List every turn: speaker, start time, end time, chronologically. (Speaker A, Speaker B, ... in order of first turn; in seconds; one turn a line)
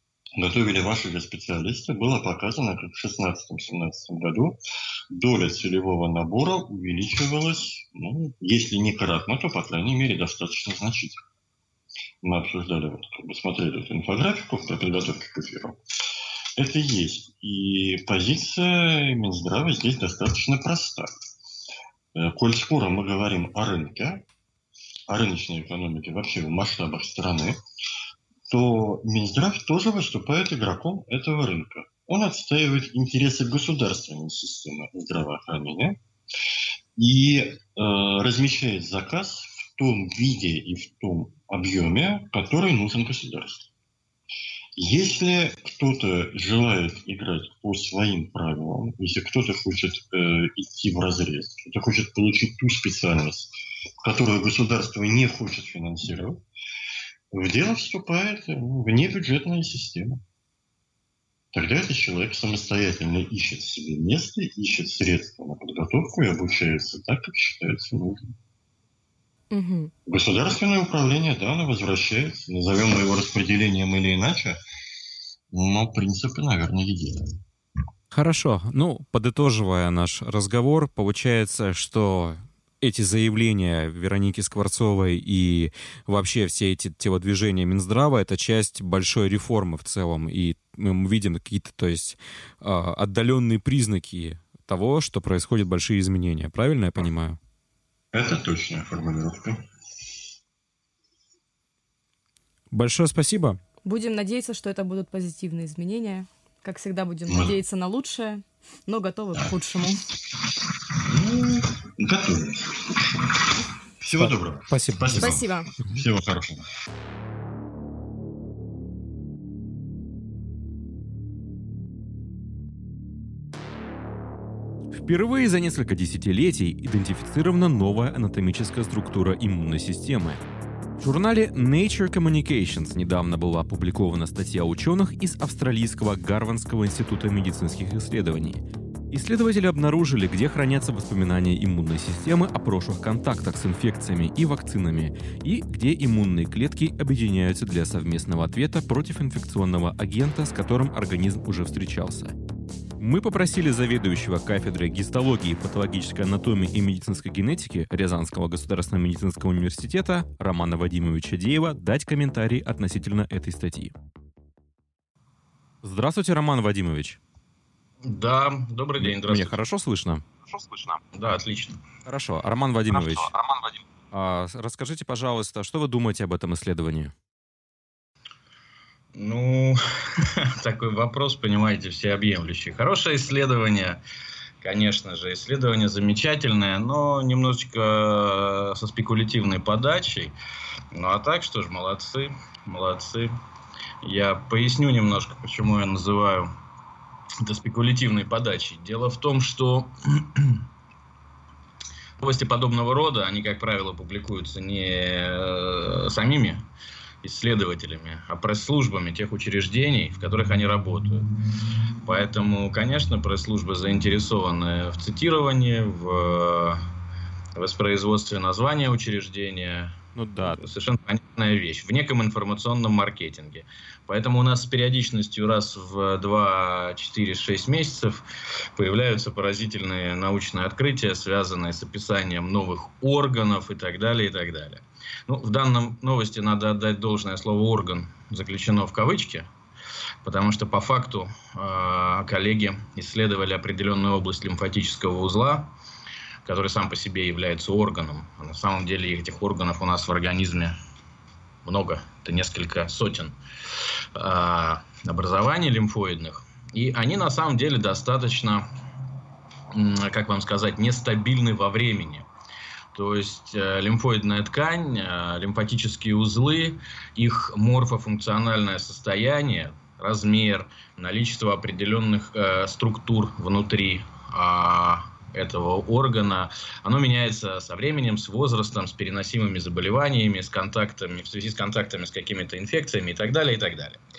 Speaker A: 0.4-4.6
Speaker A: 5.1-11.2
Speaker A: 12.2-15.8
Speaker A: 16.6-21.1
Speaker A: 22.1-24.2
Speaker A: 25.1-27.6
Speaker A: 28.5-36.0
Speaker A: 37.0-43.7
Speaker A: 44.8-56.4
Speaker A: 57.3-60.2
Speaker A: 61.5-68.3
Speaker B: 69.5-69.9
Speaker A: 70.1-74.6
Speaker A: 75.5-77.3
Speaker C: 78.1-97.4
Speaker A: 98.1-99.6
Speaker C: 102.7-103.6
Speaker B: 103.8-110.0
Speaker A: 107.3-107.6
Speaker A: 110.9-116.7
Speaker C: 114.2-115.4
Speaker B: 115.2-115.7
Speaker C: 124.9-130.4
Speaker C: 131.0-152.3
Speaker C: 153.0-163.9
Speaker C: 165.8-167.2
Speaker D: 168.0-169.6
Speaker C: 169.0-170.6
Speaker D: 171.1-171.8
Speaker C: 172.1-173.3
Speaker C: 174.1-177.1
Speaker D: 179.2-184.0
Speaker D: 184.6-190.3
Speaker D: 190.9-193.3
Speaker D: 194.0-196.5
Speaker D: 197.4-200.6
Speaker D: 202.2-206.7
Speaker D: 207.2-211.3
Speaker D: 212.0-216.8
Speaker D: 217.6-239.5
Speaker C: 220.2-220.6
Speaker D: 240.2-245.7
Speaker D: 246.5-250.8
Speaker D: 251.7-253.3
Speaker D: 254.2-258.7
Speaker D: 259.7-262.3
Speaker D: 262.9-284.0